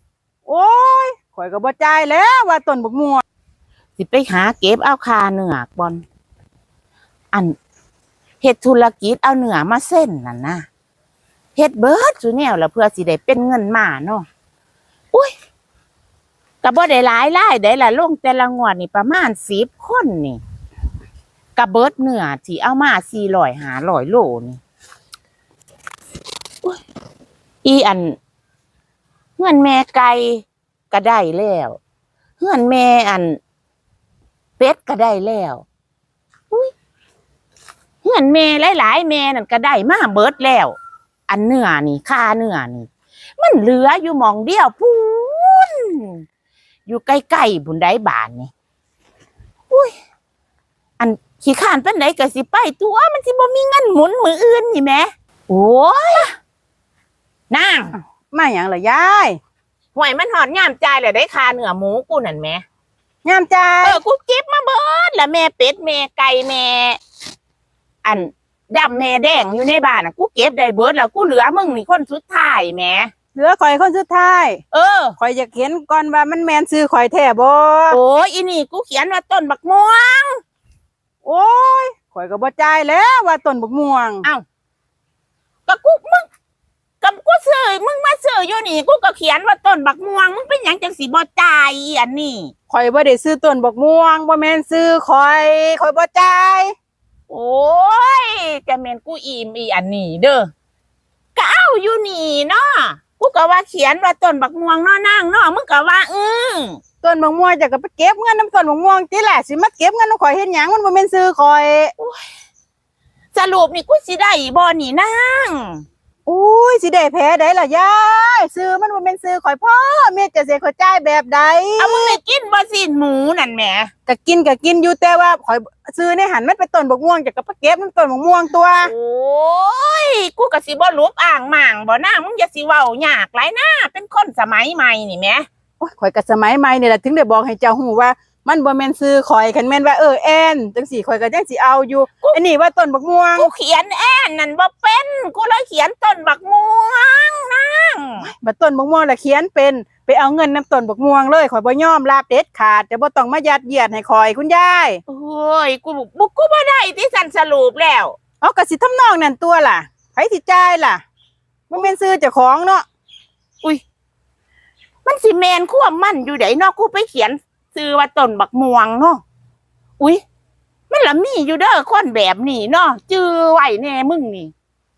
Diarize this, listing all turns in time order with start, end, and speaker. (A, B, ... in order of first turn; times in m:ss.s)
0:00.5-0:03.2 A
0:04.0-0:06.0 B
0:08.4-0:10.6 B
0:11.6-0:14.2 B
0:16.6-0:20.4 B
0:21.6-0:24.6 B
0:27.6-0:28.2 B
0:29.4-0:31.8 B
0:32.4-0:33.4 B
0:34.6-0:35.6 B
0:38.0-0:40.8 B
0:41.3-0:46.2 B
0:46.9-0:48.5 B
0:51.0-0:56.3 B
0:57.5-0:57.9 B
0:57.9-0:59.4 A
0:59.9-1:02.6 B
1:03.2-1:04.0 A
1:03.8-1:07.0 B
1:08.0-1:13.1 B
1:13.3-1:14.6 A
1:14.7-1:15.2 B
1:15.2-1:18.0 A
1:17.9-1:20.4 B
1:21.2-1:24.3 A
1:25.7-1:26.3 B
1:27.0-1:32.5 B
1:32.7-1:36.7 A
1:37.3-1:40.5 B
1:41.3-1:46.8 B
1:47.0-1:51.9 A
1:52.0-1:52.2 B
1:53.3-1:55.8 B
1:56.3-2:02.2 A
2:01.8-2:03.9 B
2:04.1-2:08.9 A
2:08.8-2:15.5 B
2:15.8-2:23.5 A
2:23.4-2:28.3 B
2:28.2-2:35.0 A
2:35.1-2:38.2 B
2:38.4-2:41.0 A
2:41.7-2:42.8 A
2:45.0-2:49.2 B
2:50.9-2:54.5 B